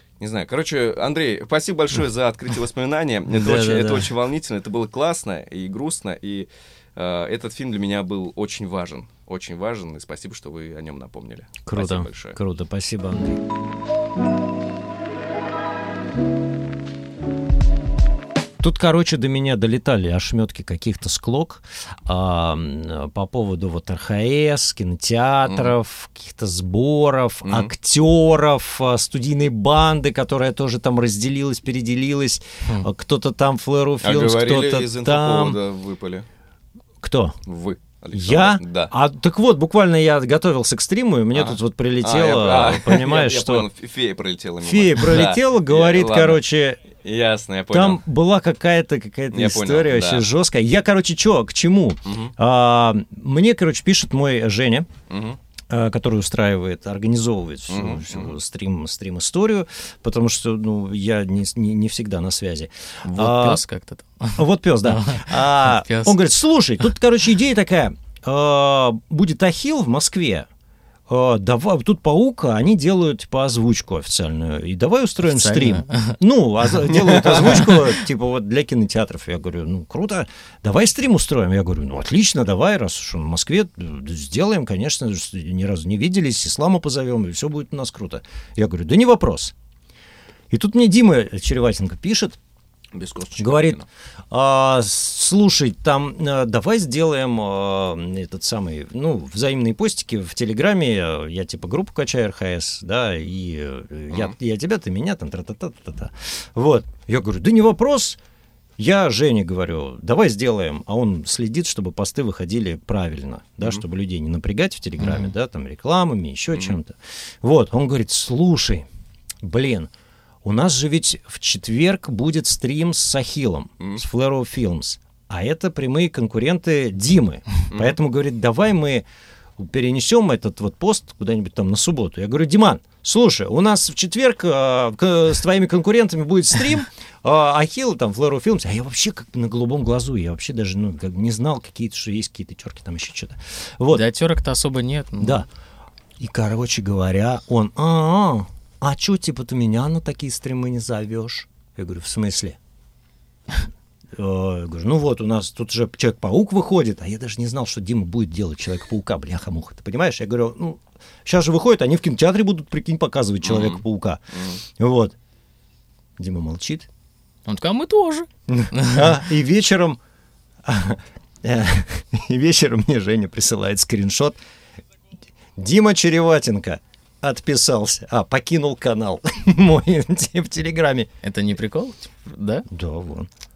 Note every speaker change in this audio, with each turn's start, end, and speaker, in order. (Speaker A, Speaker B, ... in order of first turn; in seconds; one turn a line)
Speaker A: 0.2-12.4
Speaker B: 3.4-4.1
Speaker B: 11.7-13.4
Speaker B: 18.6-35.6
Speaker A: 25.4-25.7
Speaker A: 27.4-27.7
Speaker A: 34.0-36.2
Speaker B: 37.0-37.4
Speaker A: 37.5-38.9
Speaker B: 38.1-43.7
Speaker A: 41.3-46.4
Speaker B: 44.6-46.8
Speaker A: 47.0-48.0
Speaker B: 47.7-54.9
Speaker A: 49.3-50.2
Speaker A: 52.1-52.3
Speaker A: 55.1-55.4
Speaker B: 55.7-63.6
Speaker A: 57.7-58.4
Speaker C: 63.0-66.2
Speaker B: 64.4-70.5
Speaker B: 71.1-89.5
Speaker C: 75.2-76.2
Speaker A: 76.9-77.6
Speaker B: 90.5-92.4
Speaker A: 92.9-93.8
Speaker B: 93.4-108.2
Speaker B: 108.8-118.8
Speaker C: 115.0-115.3
Speaker B: 119.4-119.9
Speaker B: 120.4-129.1
Speaker A: 127.7-128.0
Speaker B: 129.6-144.0
Speaker C: 143.9-145.4
Speaker B: 145.2-145.5
Speaker B: 146.2-152.6
Speaker B: 154.1-165.1
Speaker A: 163.4-163.8
Speaker A: 164.3-164.6
Speaker B: 166.2-166.9
Speaker C: 167.4-169.0
Speaker B: 168.5-170.0
Speaker B: 170.6-174.4
Speaker B: 175.6-181.1
Speaker C: 181.2-182.7
Speaker B: 182.7-183.3